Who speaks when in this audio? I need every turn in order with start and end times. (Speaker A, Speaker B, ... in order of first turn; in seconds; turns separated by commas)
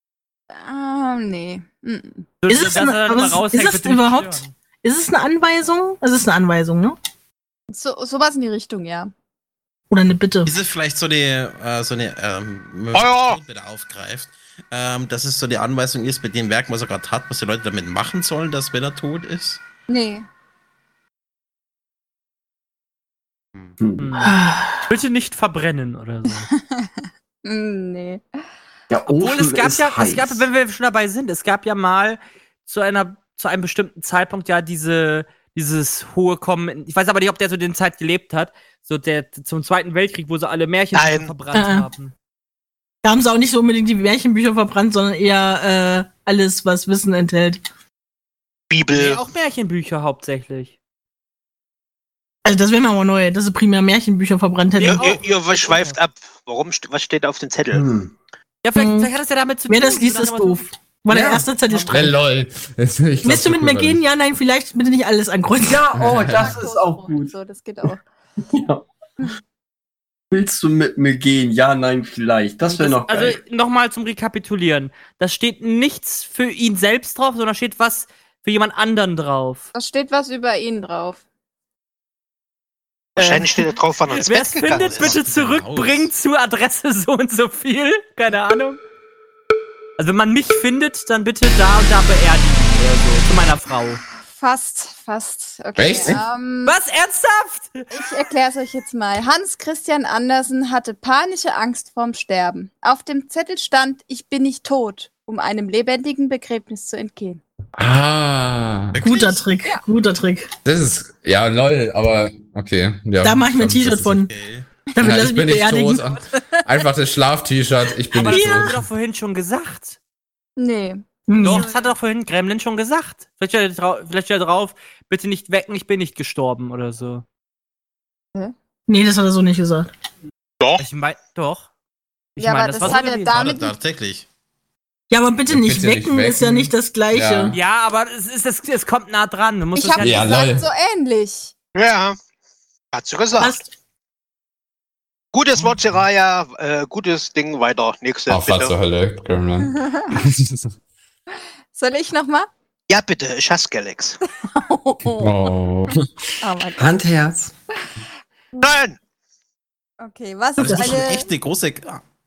Speaker A: 0.5-2.3, Speaker B: 2.4-4.5, Speaker C: 2.5-7.0, Speaker A: 7.7-9.1, Speaker C: 9.9-10.5, Speaker D: 10.5-19.6, Speaker E: 12.9-13.4, Speaker A: 19.9-20.3, Speaker F: 23.8-24.1, Speaker B: 24.0-26.5, Speaker C: 24.2-24.8, Speaker A: 26.6-28.2, Speaker F: 28.9-30.5, Speaker B: 29.1-42.1, Speaker E: 40.9-41.3, Speaker C: 41.5-41.9, Speaker C: 43.0-47.6, Speaker E: 48.7-49.2, Speaker B: 48.9-50.7, Speaker C: 52.5-55.0, Speaker B: 54.8-56.0, Speaker E: 54.8-57.9, Speaker F: 57.7-58.1, Speaker B: 58.6-60.7, Speaker C: 58.8-59.1, Speaker C: 59.7-62.1, Speaker G: 61.1-64.0, Speaker F: 61.1-61.4, Speaker C: 63.2-65.8, Speaker F: 65.6-67.3, Speaker G: 65.9-66.6, Speaker A: 66.3-68.0, Speaker F: 68.5-68.8, Speaker F: 70.3-73.4, Speaker B: 72.8-79.7, Speaker A: 79.7-81.2, Speaker E: 83.2-85.1, Speaker B: 84.1-88.8, Speaker D: 84.7-86.1, Speaker B: 90.0-94.0, Speaker A: 94.3-96.8, Speaker G: 95.8-96.2, Speaker B: 96.7-97.8, Speaker A: 97.9-107.4, Speaker G: 107.8-109.0, Speaker D: 108.9-109.4, Speaker C: 109.0-110.5, Speaker G: 110.7-114.3, Speaker C: 113.2-114.3, Speaker D: 114.3-114.7, Speaker C: 115.0-116.0, Speaker G: 115.0-118.8, Speaker B: 118.1-120.0, Speaker C: 118.3-118.8, Speaker A: 120.6-121.9, Speaker C: 121.3-121.7, Speaker B: 121.3-127.2, Speaker C: 128.9-129.9, Speaker B: 130.8-131.7, Speaker B: 132.4-133.4, Speaker A: 132.4-133.7, Speaker D: 132.9-134.3, Speaker C: 135.1-137.6, Speaker G: 135.5-137.6, Speaker B: 137.5-140.6, Speaker A: 139.8-141.5, Speaker G: 140.0-140.7, Speaker E: 141.8-142.2, Speaker E: 142.9-143.6, Speaker C: 143.4-143.7, Speaker E: 145.3-148.8, Speaker G: 148.3-150.7, Speaker A: 149.7-150.1, Speaker A: 151.7-152.5, Speaker E: 152.9-154.2, Speaker A: 154.4-155.3, Speaker G: 155.1-156.0, Speaker A: 156.4-156.9, Speaker F: 156.8-157.5, Speaker E: 158.6-159.0, Speaker A: 160.0-161.3, Speaker D: 160.6-162.0, Speaker C: 160.8-161.1